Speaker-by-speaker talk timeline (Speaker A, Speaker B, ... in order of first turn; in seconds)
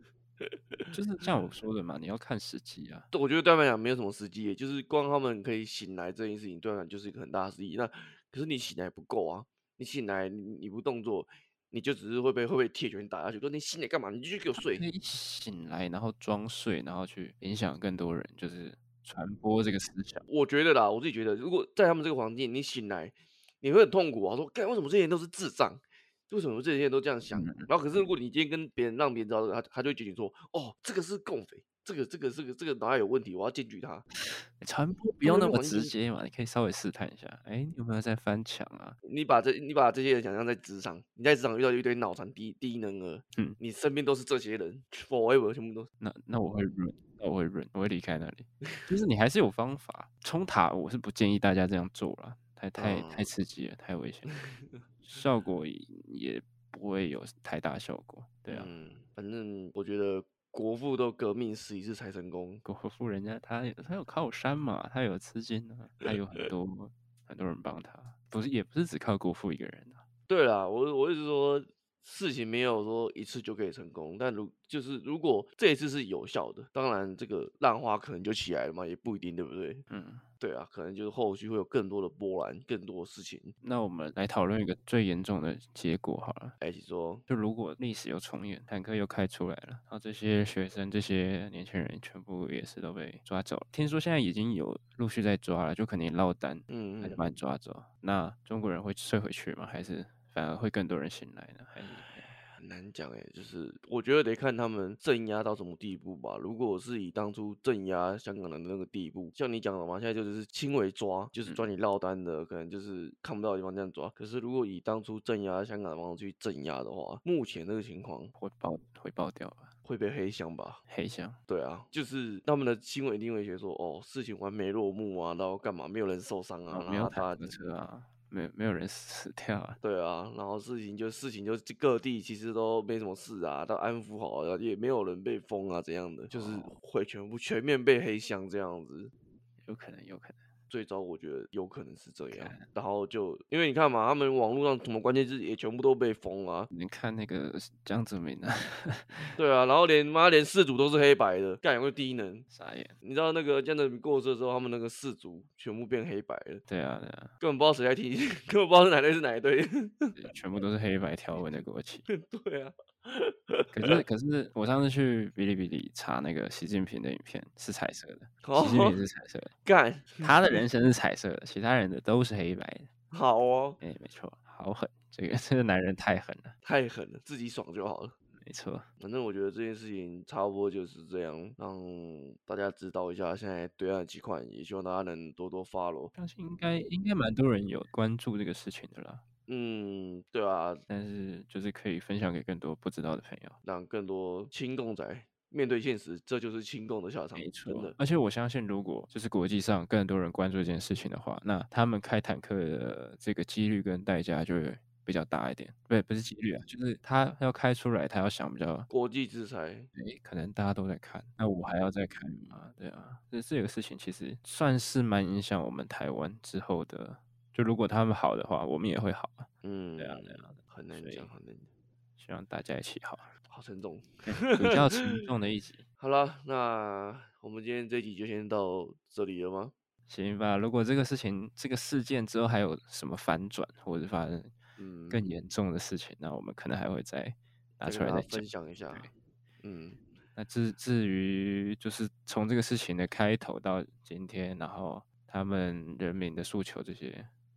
Speaker A: 0.4-0.8, 3.1-14.8, 20.3-34.0, 35.2-35.9, 39.0-45.9, 52.8-53.3, 54.3-54.8, 58.5-62.6, 66.0-66.5, 70.3-79.8, 80.4-83.5, 86.6-87.2, 96.7-97.2, 101.8-118.3, 119.8-120.8, 121.5-127.5, 129.8-139.1, 140.7-146.7, 149.4-152.5, 153.0-156.6, 157.4-160.2, 162.1-164.0, 168.4-169.0, 169.6-170.6, 173.1-173.8, 176.6-178.1, 179.0-186.1, 189.5-190.8, 193.6-198.0, 208.9-209.9, 219.6-221.7, 223.5-225.3, 226.0-229.7, 234.8-235.2, 237.8-239.1, 239.6-240.0
Speaker B: 0.9-3.1, 14.5-20.2, 27.3-27.7, 34.3-39.0, 46.0-54.3, 55.0-58.7, 62.6-70.0, 79.9-80.2, 83.6-86.5, 87.3-102.3, 118.4-119.7, 120.9-121.4, 126.7-129.8, 136.3-136.7, 139.6-140.4, 142.3-142.6, 146.7-149.4, 152.5-152.9, 156.7-157.3, 160.2-162.1, 163.7-169.5, 170.2-172.9, 173.8-176.5, 178.4-178.8, 186.2-189.2, 190.9-193.6, 197.3-208.9, 209.9-221.3, 222.2-223.3, 224.2-225.8, 230.1-234.5, 235.1-239.1, 240.3-247.3